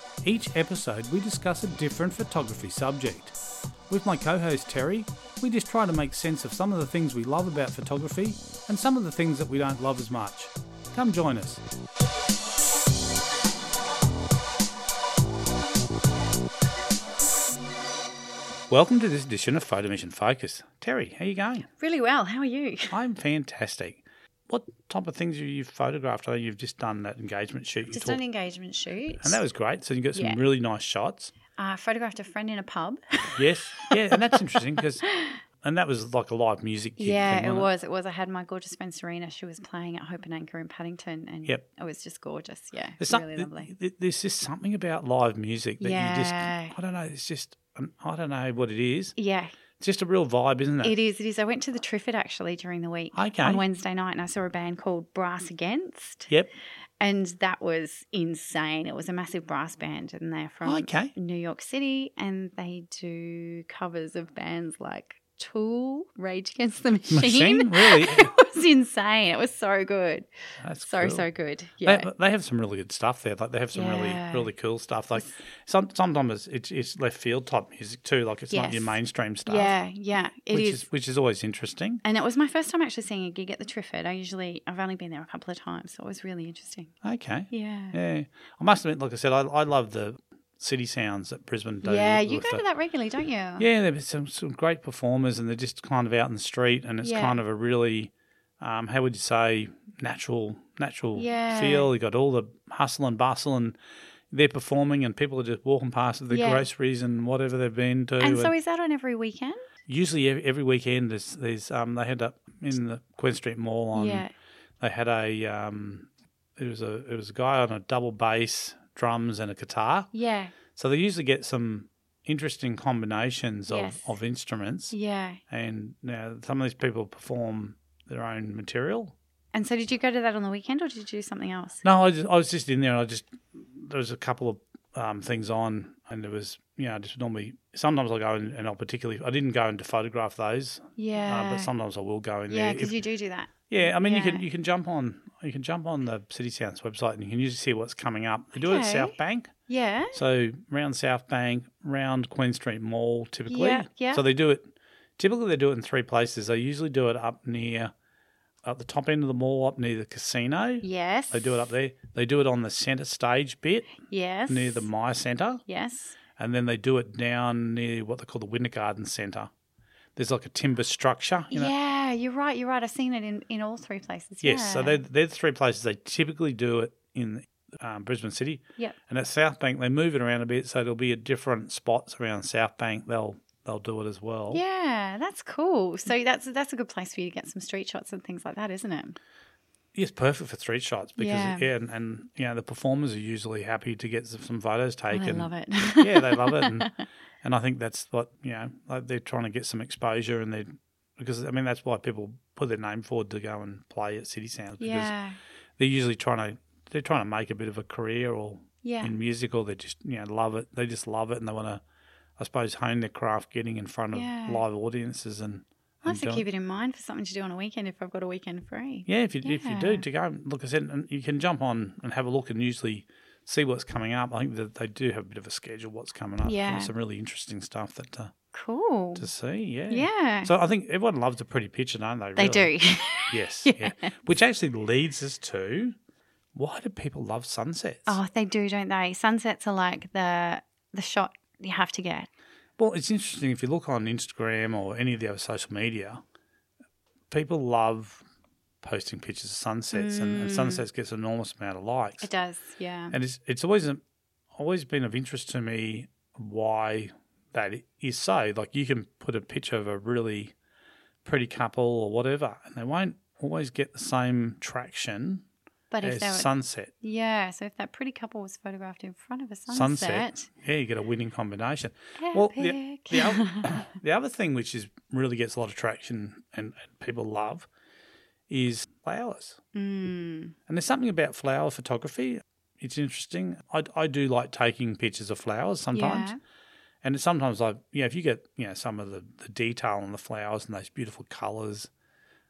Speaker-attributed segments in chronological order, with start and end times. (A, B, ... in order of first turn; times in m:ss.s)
0:00.2-0:03.4 A
0:03.9-0:11.6 A
0:18.7-0:21.7 A
0:21.8-0:23.0 B
0:22.9-0:28.2 A
0:27.9-0:29.4 B
0:29.2-0:31.3 A
0:30.1-0:30.4 B
0:31.6-0:34.4 B
0:33.4-0:35.0 A
0:35.0-0:35.4 B
0:35.6-0:37.7 A
0:37.0-0:43.7 B
0:43.0-0:49.1 A
0:45.8-0:46.7 B
0:49.2-0:49.5 B
0:49.8-0:50.9 A
0:50.8-0:56.3 B
0:53.1-0:53.6 A
0:57.0-1:10.2 B
1:00.6-1:01.1 A
1:07.1-1:08.3 A
1:10.6-1:11.2 A
1:10.8-1:12.1 B
1:11.8-1:19.7 A
1:13.7-1:14.5 B
1:18.5-1:20.8 B
1:20.5-1:22.0 A
1:22.0-1:26.9 B
1:27.0-1:32.6 A
1:27.5-1:28.0 B
1:31.8-1:33.7 B
1:33.6-1:43.8 A
1:37.0-1:37.4 B
1:41.2-1:41.9 B
1:44.3-1:48.5 A
1:46.3-1:46.6 B
1:48.2-1:49.6 B
1:49.9-1:54.2 A
1:53.9-1:54.3 B
1:54.8-2:00.1 A
2:00.1-2:00.5 B
2:00.7-2:04.9 A
2:03.7-2:04.1 B
2:04.9-2:05.4 B
2:05.5-2:09.1 A
2:09.5-2:11.8 B
2:11.8-2:23.0 A
2:21.0-2:21.7 B
2:22.5-2:24.4 B
2:23.7-2:29.5 A
2:28.6-2:29.1 B
2:29.7-2:30.2 B
2:30.1-2:37.9 A
2:33.5-2:34.2 B
2:38.6-2:44.0 A
2:40.8-2:41.5 B
2:44.1-2:44.9 B
2:44.5-2:45.6 A
2:45.7-2:46.2 B
2:46.4-2:49.5 A
2:50.2-2:51.7 A
2:51.5-2:55.0 B
2:54.4-3:04.6 A
3:04.5-3:09.2 B
3:09.9-3:15.5 A
3:11.2-3:11.7 B
3:15.1-3:17.0 B
3:16.0-3:16.9 A
3:17.4-3:25.1 A
3:24.8-3:25.4 B
3:25.8-3:31.8 A
3:28.8-3:29.2 B
3:32.4-3:36.4 A
3:34.1-3:34.6 B
3:36.0-3:40.0 B
3:39.1-3:48.3 A
3:46.4-3:46.9 B
3:48.5-3:49.3 B
3:49.2-3:52.7 A
3:49.9-3:50.5 B
3:52.4-3:54.2 B
3:53.3-3:56.0 A
3:56.5-3:58.2 A
3:58.1-4:02.3 B
4:02.8-4:06.2 A
4:07.3-4:08.2 A
4:08.8-4:12.3 A
4:09.9-4:10.8 B
4:12.2-4:13.2 B
4:13.1-4:14.0 A
4:14.5-4:20.5 A
4:21.2-4:25.4 A
4:25.9-4:26.5 B
4:26.0-4:26.9 A
4:27.0-4:30.5 B
4:29.7-4:37.7 A
4:32.2-4:33.9 B
4:38.5-4:39.6 A
4:39.7-4:40.6 B
4:40.7-4:46.3 A
4:45.9-4:46.4 B
4:47.0-4:51.9 A